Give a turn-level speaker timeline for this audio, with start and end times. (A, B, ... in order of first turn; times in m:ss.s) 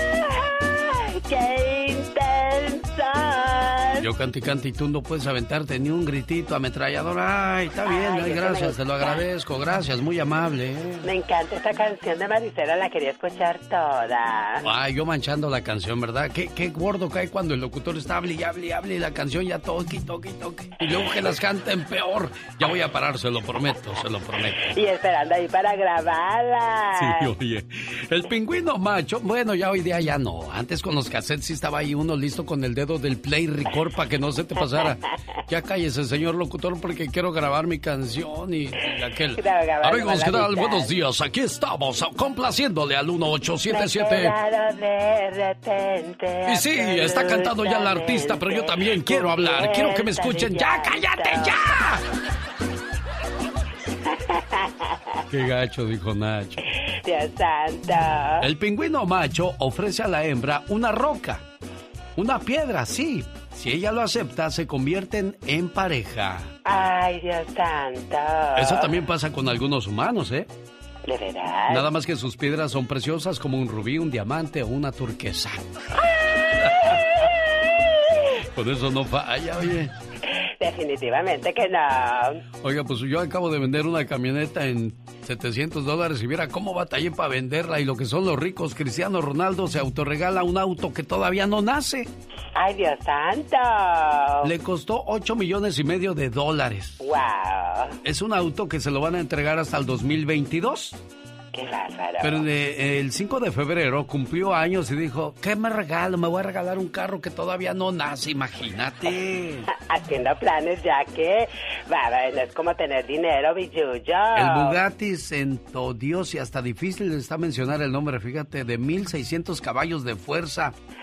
0:00.3-0:04.1 A
0:04.0-0:11.0 B
0:07.8-0:09.3 A
0:11.0-0:14.7 A
0:14.6-0:24.6 B
0:21.0-0:21.3 A
0:24.6-0:27.3 A
0:27.0-0:44.4 B
0:39.4-0:40.9 A
0:43.7-0:51.7 A
0:46.5-0:52.0 B
0:54.1-0:54.7 A
0:55.3-0:56.6 B
0:57.0-0:58.5 A
0:58.4-1:01.4 B
1:02.2-1:06.5 B
1:06.7-1:09.0 A
1:08.6-1:10.5 B
1:11.1-1:11.9 A
1:11.7-1:15.7 B
1:16.6-1:17.3 A
1:18.6-1:19.9 B
1:20.6-1:22.4 A
1:22.6-1:32.1 B
1:32.6-1:34.5 A
1:34.4-1:37.0 B
1:37.0-1:38.0 A
1:38.0-1:41.0 B
1:41.5-1:42.4 A
1:42.2-1:49.6 B
1:49.7-1:54.8 A
1:54.4-2:00.7 B